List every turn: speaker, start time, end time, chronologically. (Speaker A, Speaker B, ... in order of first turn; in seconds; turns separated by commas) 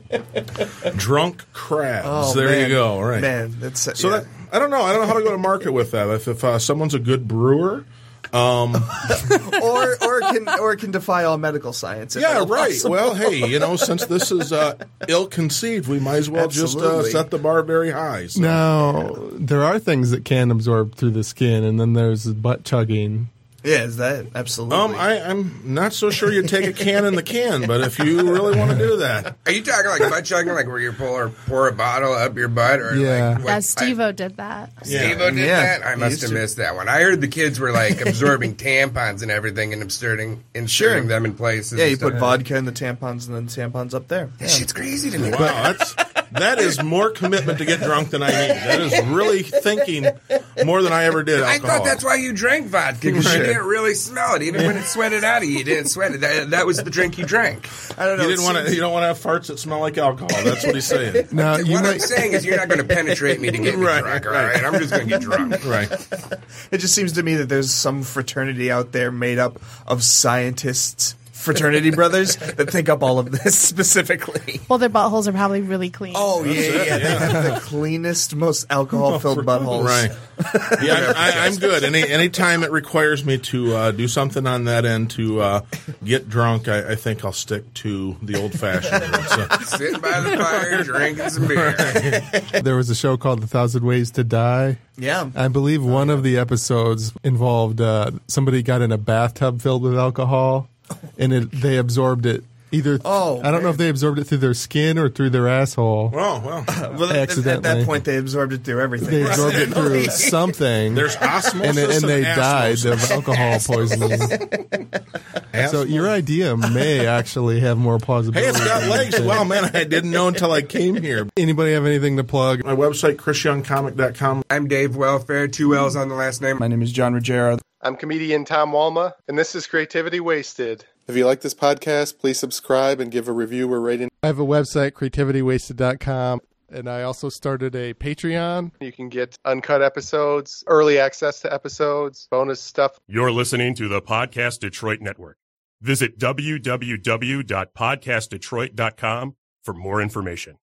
Speaker A: 0.9-3.3, Speaker B: 2.0-4.3, Speaker A: 4.0-9.2, Speaker B: 9.1-13.2, Speaker A: 12.2-18.7, Speaker B: 16.3-17.3, Speaker C: 18.4-23.3, Speaker B: 23.6-25.1, Speaker A: 24.7-29.4, Speaker D: 29.4-34.0, Speaker C: 32.9-33.4, Speaker E: 33.4-35.0, Speaker A: 34.8-35.2, Speaker D: 34.9-42.4, Speaker B: 35.2-36.4, Speaker B: 40.7-41.1, Speaker B: 41.7-44.7, Speaker D: 44.4-45.7, Speaker A: 45.2-52.0, Speaker B: 48.5-48.9, Speaker D: 51.4-57.7, Speaker A: 53.1-53.6, Speaker B: 57.8-58.8, Speaker A: 58.2-61.3, Speaker C: 61.3-62.1, Speaker D: 61.4-65.7, Speaker A: 63.6-64.6, Speaker A: 65.6-65.9, Speaker B: 66.1-74.7, Speaker E: 74.7-77.0, Speaker B: 76.1-81.2, Speaker A: 76.4-77.5, Speaker A: 79.0-80.2, Speaker D: 80.7-81.7, Speaker A: 80.8-89.7, Speaker D: 89.5-92.0, Speaker A: 90.2-90.8, Speaker A: 91.5-92.4, Speaker C: 92.5-94.8, Speaker B: 95.0-95.3, Speaker C: 95.3-106.2, Speaker B: 103.0-103.8, Speaker A: 106.1-106.8, Speaker B: 106.7-110.3, Speaker C: 107.0-108.0, Speaker C: 109.0-114.4, Speaker A: 109.2-110.2, Speaker A: 110.9-113.3, Speaker B: 114.1-114.8, Speaker A: 115.5-116.1, Speaker C: 115.6-119.5, Speaker A: 118.3-121.3, Speaker C: 121.3-122.6, Speaker A: 122.6-124.5, Speaker D: 124.5-126.6, Speaker B: 126.6-127.6, Speaker F: 127.8-134.1, Speaker C: 134.2-138.8, Speaker F: 138.8-142.9, Speaker G: 143.1-150.6